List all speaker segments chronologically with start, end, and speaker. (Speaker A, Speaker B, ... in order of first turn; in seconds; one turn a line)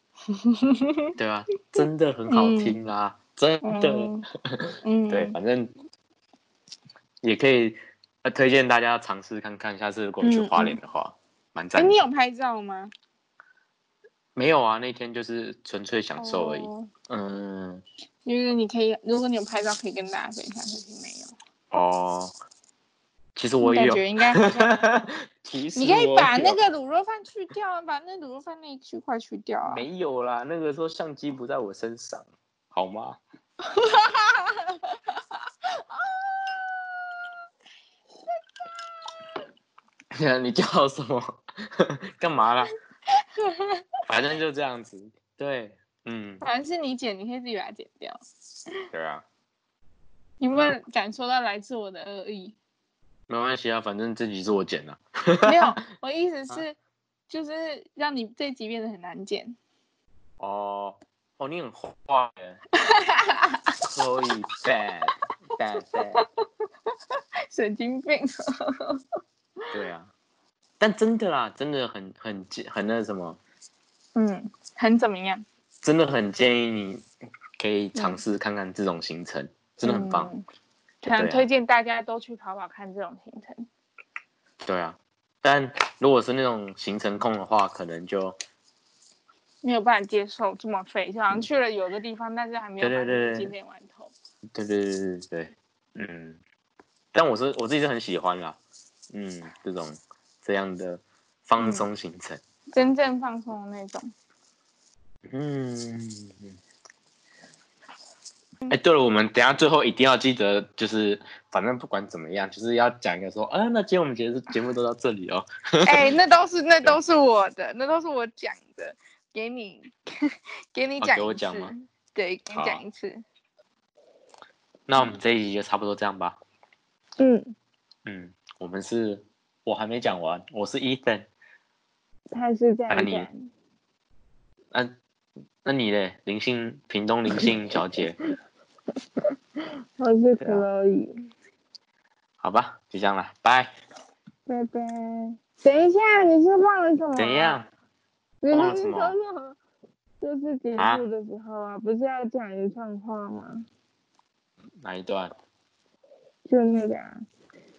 Speaker A: 0.4-1.1
Speaker B: 1.2-5.7
Speaker A: 1.7-2.8
Speaker A: 3.6-4.3
Speaker A: 4.8-5.3
Speaker B: 7.2-12.0
Speaker A: 10.2-10.8
Speaker A: 11.7-12.9
Speaker B: 14.3-17.8
Speaker A: 16.2-16.9
Speaker A: 18.2-21.3
Speaker B: 21.7-22.3
Speaker B: 23.4-26.6
Speaker A: 23.6-24.8
Speaker A: 25.7-29.9
Speaker B: 29.7-33.2
Speaker A: 33.6-37.2
Speaker B: 40.1-42.7
Speaker A: 43.2-43.8
Speaker B: 44.1-46.4
Speaker A: 46.4-48.2
Speaker B: 48.9-49.2
Speaker A: 50.4-52.5
Speaker B: 53.3-55.6
Speaker A: 55.4-56.8
Speaker A: 57.3-59.5
Speaker B: 60.4-62.6
Speaker A: 62.8-63.8
Speaker B: 63.8-66.2
Speaker A: 67.5-69.0
Speaker B: 69.7-70.1
Speaker B: 70.8-73.4
Speaker A: 74.1-75.4
Speaker B: 75.8-77.0
Speaker B: 77.6-80.3
Speaker A: 77.9-78.2
Speaker A: 79.8-80.4
Speaker A: 81.0-83.7
Speaker B: 81.2-81.5
Speaker B: 84.6-88.3
Speaker A: 89.6-94.1
Speaker B: 92.8-93.5
Speaker B: 94.5-96.4
Speaker B: 97.1-98.6
Speaker B: 99.1-102.4
Speaker A: 101.6-101.9
Speaker A: 102.7-104.1
Speaker B: 105.3-106.5
Speaker B: 108.7-116.1
Speaker A: 115.8-119.9
Speaker A: 120.7-123.2
Speaker B: 121.0-121.7
Speaker B: 122.5-122.8
Speaker B: 124.9-126.4
Speaker A: 124.9-125.2
Speaker A: 127.2-127.5
Speaker B: 128.0-131.3
Speaker A: 132.3-133.5
Speaker B: 132.9-133.3
Speaker B: 135.6-138.2
Speaker A: 140.0-141.2
Speaker B: 140.4-140.7
Speaker B: 142.4-143.7
Speaker A: 144.5-147.6
Speaker B: 147.2-147.7
Speaker A: 148.4-149.6
Speaker B: 148.5-149.2
Speaker A: 150.2-153.6
Speaker B: 150.8-151.0
Speaker B: 154.8-155.3
Speaker A: 156.4-157.2